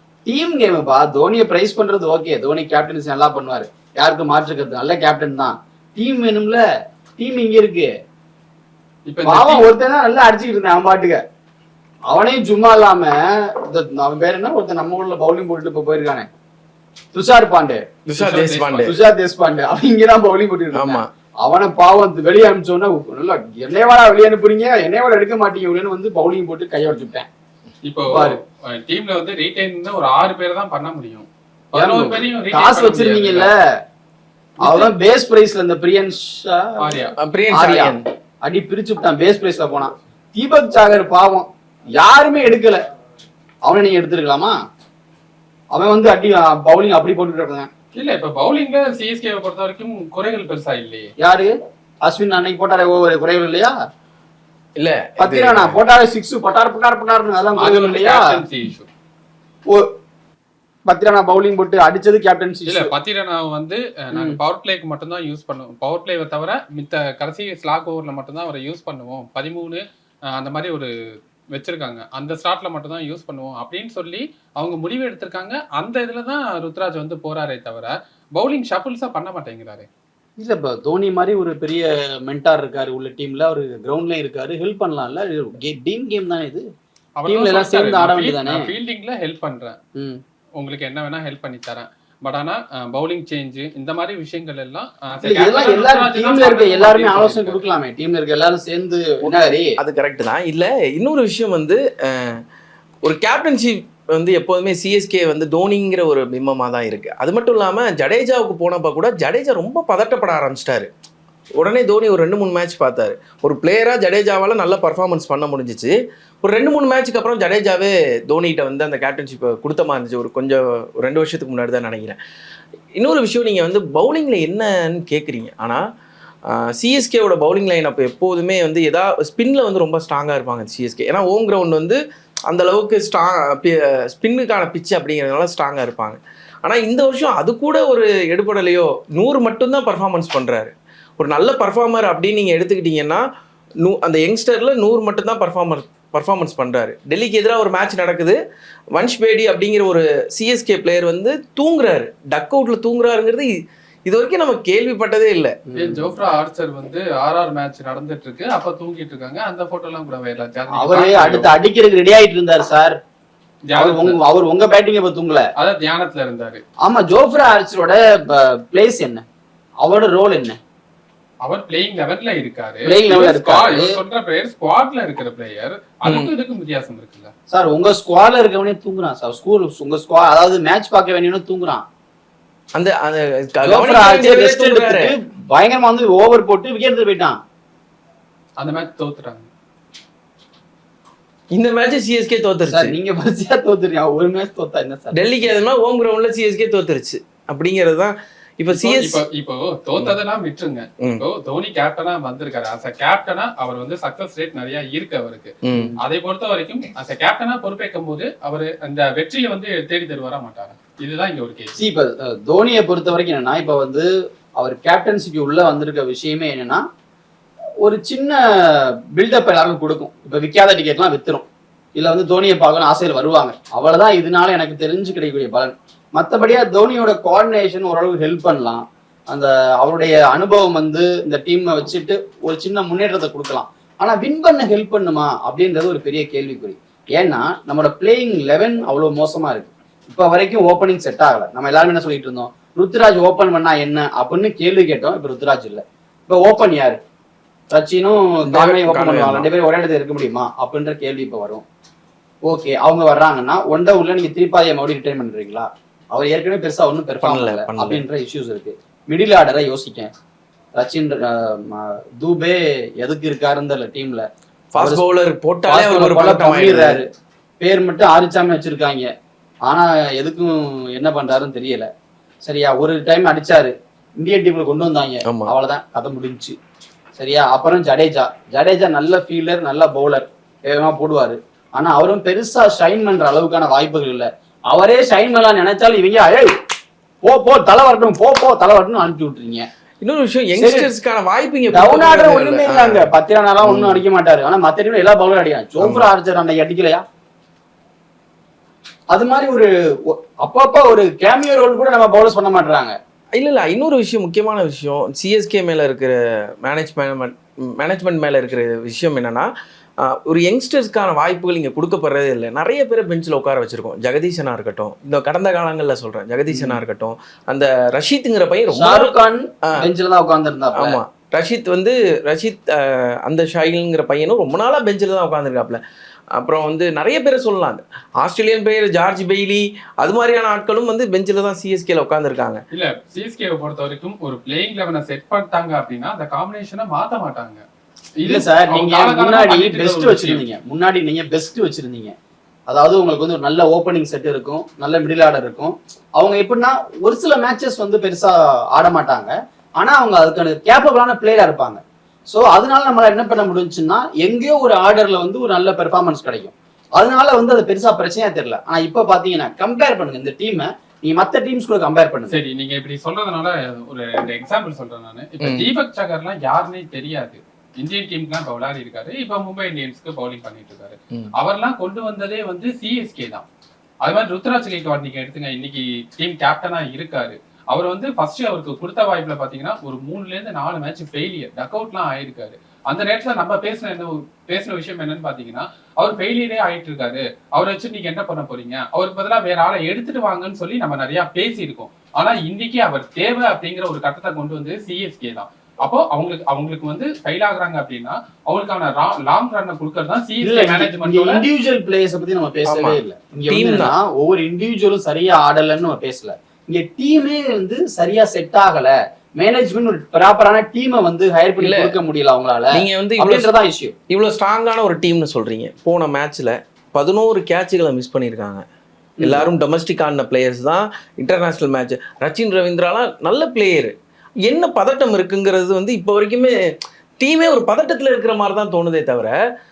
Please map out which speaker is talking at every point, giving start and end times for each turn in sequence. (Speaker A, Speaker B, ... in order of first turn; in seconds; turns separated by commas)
Speaker A: 0.2-6.6, Speaker A: 7.2-7.9, Speaker B: 9.1-9.7, Speaker A: 9.2-11.2, Speaker A: 12.1-16.3, Speaker A: 17.1-17.9, Speaker C: 18.1-18.9, Speaker B: 18.1-18.9, Speaker A: 18.8-27.3, Speaker C: 20.7-21.1, Speaker B: 27.8-33.5, Speaker A: 28.1-28.4, Speaker A: 31.7-33.6, Speaker A: 34.6-42.8, Speaker B: 34.6-34.9, Speaker B: 36.8-37.1, Speaker C: 37.2-38.0, Speaker A: 43.6-44.5, Speaker A: 45.7-47.7, Speaker B: 47.9-51.1, Speaker A: 51.2-53.7, Speaker C: 54.8-55.8, Speaker A: 55.2-58.4, Speaker B: 57.5-58.9, Speaker A: 60.9-62.9, Speaker B: 62.7-70.9, Speaker A: 64.1-64.4, Speaker B: 71.5-79.9, Speaker A: 80.4-86.7, Speaker B: 87.2-89.8, Speaker A: 87.3-88.7, Speaker A: 90.0-90.2, Speaker B: 90.6-97.6, Speaker A: 95.2-99.8, Speaker C: 99.2-102.4, Speaker C: 103.0-110.9, Speaker C: 111.6-122.2, Speaker C: 123.0-125.8, Speaker C: 126.5-143.2, Speaker C: 143.8-148.4, Speaker C: 148.9-155.6, Speaker A: 155.7-156.1, Speaker B: 155.7-161.5, Speaker A: 160.7-162.9, Speaker B: 163.7-164.2, Speaker A: 163.8-165.5, Speaker B: 165.6-166.6, Speaker A: 166.8-169.2, Speaker A: 169.8-170.6, Speaker B: 171.4-177.3, Speaker A: 172.8-173.9, Speaker C: 176.1-176.3, Speaker A: 177.5-181.8, Speaker C: 182.8-185.1, Speaker A: 183.6-187.4, Speaker B: 188.6-189.5, Speaker C: 191.5-192.9, Speaker A: 192.7-195.2, Speaker C: 195.1-199.2, Speaker B: 198.7-211.8, Speaker C: 201.0-201.2, Speaker C: 205.6-205.9, Speaker A: 205.7-206.0, Speaker A: 211.8-216.8, Speaker A: 217.8-221.4, Speaker A: 221.9-247.0, Speaker A: 247.7-251.6, Speaker C: 248.5-249.5, Speaker A: 252.5-260.1, Speaker C: 257.2-258.0, Speaker A: 260.8-265.0, Speaker C: 264.7-267.0, Speaker A: 265.7-267.1, Speaker A: 267.6-269.1, Speaker A: 269.6-271.9, Speaker A: 272.4-276.6, Speaker C: 275.2-275.5, Speaker A: 277.2-286.5, Speaker A: 287.2-289.6, Speaker C: 290.0-293.1, Speaker A: 290.6-290.9, Speaker A: 291.7-297.0, Speaker C: 293.6-294.0, Speaker C: 295.8-296.1, Speaker A: 299.1-302.9, Speaker C: 303.4-319.9, Speaker A: 316.5-316.8, Speaker A: 318.7-321.0, Speaker C: 320.7-325.8, Speaker C: 326.3-332.6, Speaker B: 332.7-337.6, Speaker B: 338.2-340.4, Speaker A: 338.2-342.1, Speaker A: 342.7-362.4, Speaker B: 362.3-373.4, Speaker C: 365.4-365.7, Speaker B: 374.0-401.4, Speaker A: 400.4-413.9, Speaker C: 402.7-403.9, Speaker C: 411.6-411.9, Speaker C: 412.7-413.5, Speaker C: 414.1-418.6, Speaker A: 419.2-419.5, Speaker C: 419.2-423.9, Speaker C: 424.4-426.5, Speaker C: 427.2-429.4